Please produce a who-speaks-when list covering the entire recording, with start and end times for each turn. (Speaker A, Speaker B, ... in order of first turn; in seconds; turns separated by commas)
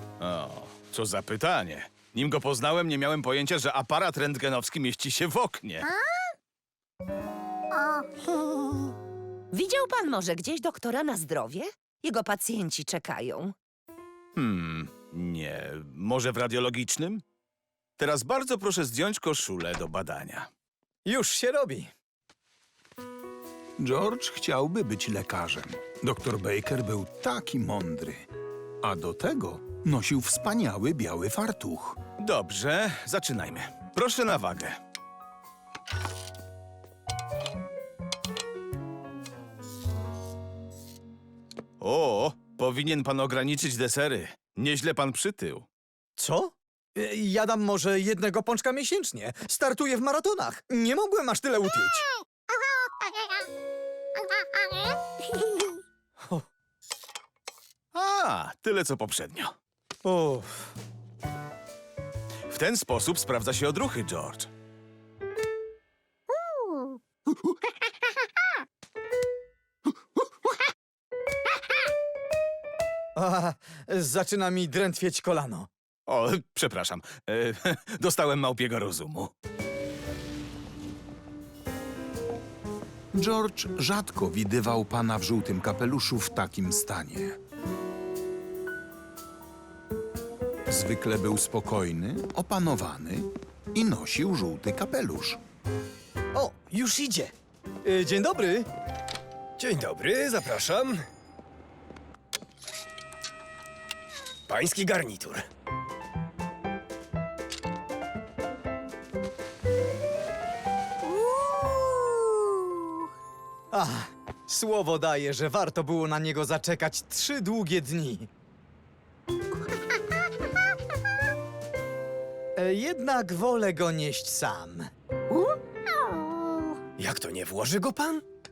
Speaker A: 0.2-5.8, Speaker B: 9.5-13.5, Speaker A: 14.3-17.2, Speaker A: 18.0-20.5, Speaker C: 21.0-21.9, Speaker D: 23.8-28.2, Speaker D: 28.8-32.0, Speaker A: 32.2-34.8, Speaker A: 41.8-45.7, Speaker C: 46.2-52.0, Speaker A: 57.9-59.5, Speaker C: 60.0-60.7, Speaker A: 62.5-64.5, Speaker C: 73.2-75.7, Speaker A: 76.1-79.3, Speaker D: 83.1-87.4, Speaker D: 90.7-95.4, Speaker C: 96.3-97.3, Speaker C: 97.8-98.7, Speaker E: 99.6-101.0, Speaker E: 104.5-105.4, Speaker C: 113.7-118.3, Speaker C: 122.6-124.9, Speaker E: 127.0-128.2